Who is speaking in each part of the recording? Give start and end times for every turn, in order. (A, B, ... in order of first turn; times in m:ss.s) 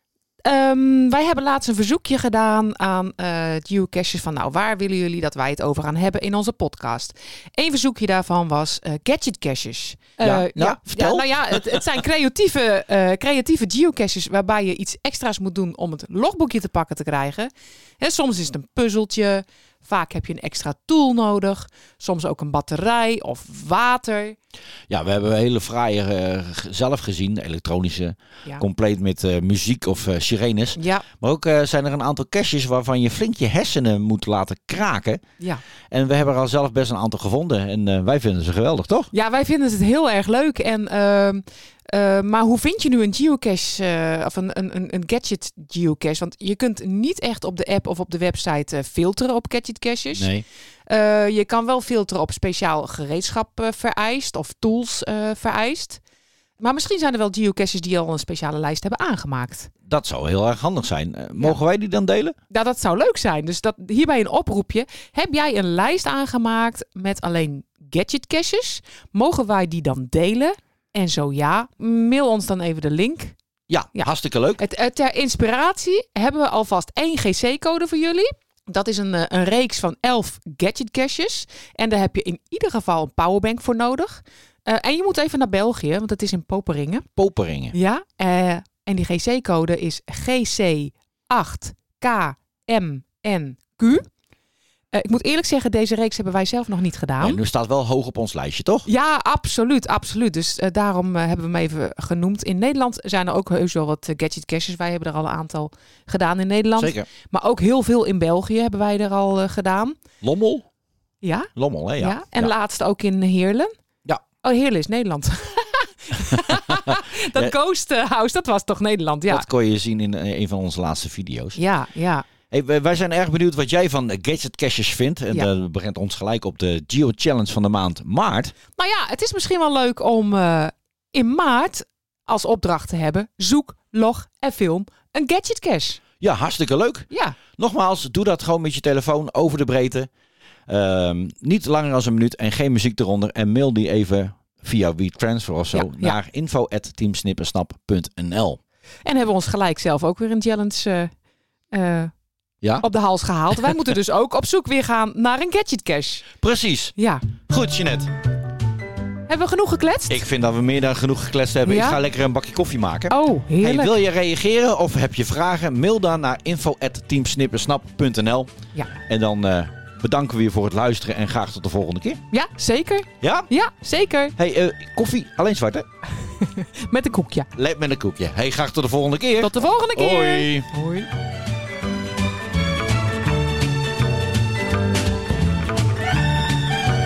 0:00.4-0:24.4 A
0:10.2-0:11.8 B
0:24.9-0:35.2 B
0:30.8-0:31.0 A
0:35.9-0:39.1 B
0:39.1-0:50.3 A
0:50.1-0:50.4 B
0:50.9-0:56.0 A
0:56.6-0:59.7 A
0:59.9-1:02.4 B
1:02.5-1:13.3 A
1:13.7-1:14.6 B
1:14.6-1:27.0 A
1:27.2-1:27.7 B
1:27.7-1:34.0 A
1:34.9-1:37.4 A
1:37.2-1:38.9 B
1:38.8-1:50.0 A
1:46.8-1:47.1 B
1:50.2-1:50.6 B
1:51.2-1:51.5 A
1:51.6-1:52.5 B
1:52.0-1:53.7 A
1:54.4-1:59.4 A
1:56.9-1:57.5 B
1:59.3-2:01.6 B
2:01.6-2:02.2 A
2:02.5-2:08.5 B
2:08.8-2:16.0 A
2:16.2-2:20.1 B
2:17.1-2:17.4 A
2:20.7-2:28.6 B
2:25.7-2:26.2 A
2:29.0-2:31.1 A
2:31.7-2:32.1 A
2:32.8-2:36.3 A
2:36.4-2:36.9 B
2:37.0-2:37.2 A
2:37.5-2:38.1 B
2:39.3-2:40.2 A
2:40.1-2:48.5 B
2:41.7-2:42.0 A
2:43.1-2:43.9 A
2:49.1-2:52.2 B
2:52.3-2:54.3 A
2:53.2-2:53.5 B
2:54.4-2:55.8 B
2:56.4-2:57.5 A
2:57.6-3:00.7 B
2:59.4-3:01.1 A